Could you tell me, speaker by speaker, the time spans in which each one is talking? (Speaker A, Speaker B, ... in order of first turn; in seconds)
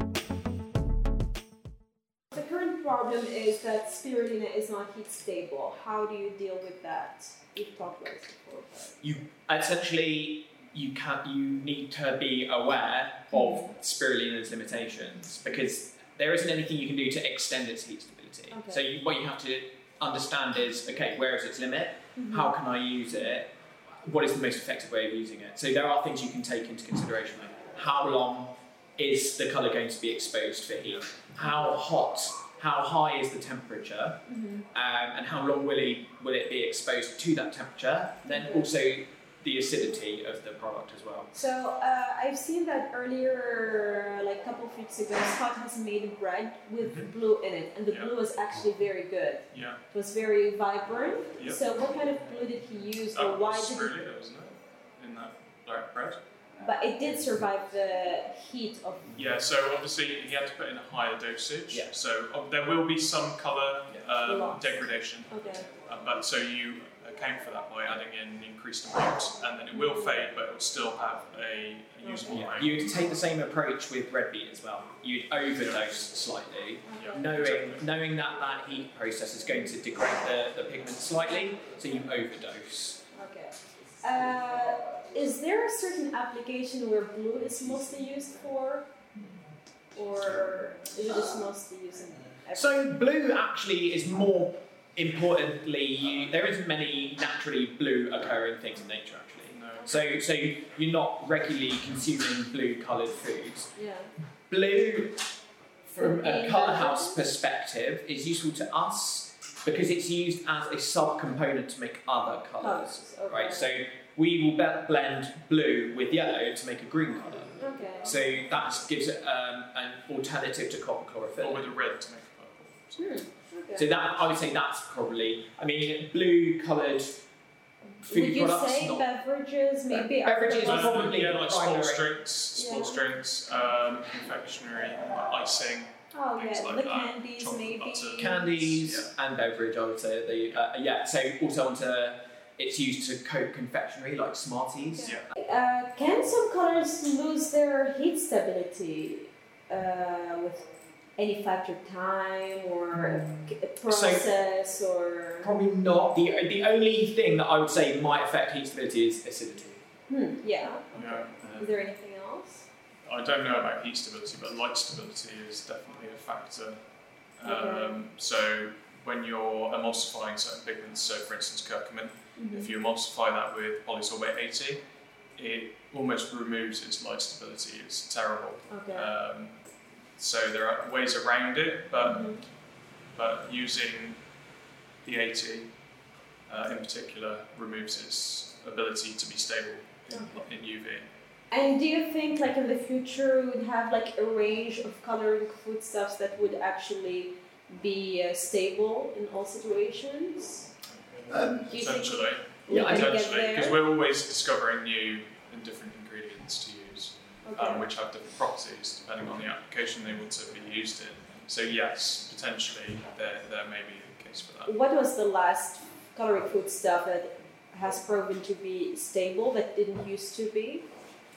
Speaker A: 2.3-9.0, 13.3-13.7, 18.5-18.8, 22.2-22.5, 31.4-31.8, 34.3-34.6, 38.2-38.7, 41.3-54.0, 56.6-59.1, 64.2-64.7, 65.3-65.7, 69.7-70.2, 72.0-72.5, 76.9-77.2, 83.1-88.9, 89.9-92.8, 103.8-104.1, 106.0-107.2, 112.6-113.7, 117.6-118.2, 123.0-123.9, 128.0-131.1, 132.5-133.0, 136.1-138.7, 144.9-150.7, 151.2-155.5, 160.1-162.7, 167.4-168.0, 172.4-172.7, 178.7-179.1, 182.0-182.4, 190.1-190.4, 191.5-200.7, 201.3-203.8, 207.4-207.9, 214.7-220.9
Speaker B: 9.0-23.5, 24.0-41.3, 46.8-47.1, 72.3-83.0, 92.5-103.7, 104.5-105.2, 105.9-121.7, 123.8-127.2, 128.1-129.1, 129.9-132.1, 138.2-145.1, 153.9-154.3, 155.4-159.8, 201.3-201.7, 202.7-203.1
Speaker C: 49.5-49.8, 51.4-51.6, 53.1-56.2, 59.1-72.8, 76.9-77.8, 99.5-100.0, 121.4-123.0, 130.6-139.1, 160.9-161.8, 163.1-166.8, 167.4-174.8, 175.4-179.6, 180.2-182.3, 183.2-184.2, 185.0-185.7, 186.5-191.1, 201.7-214.7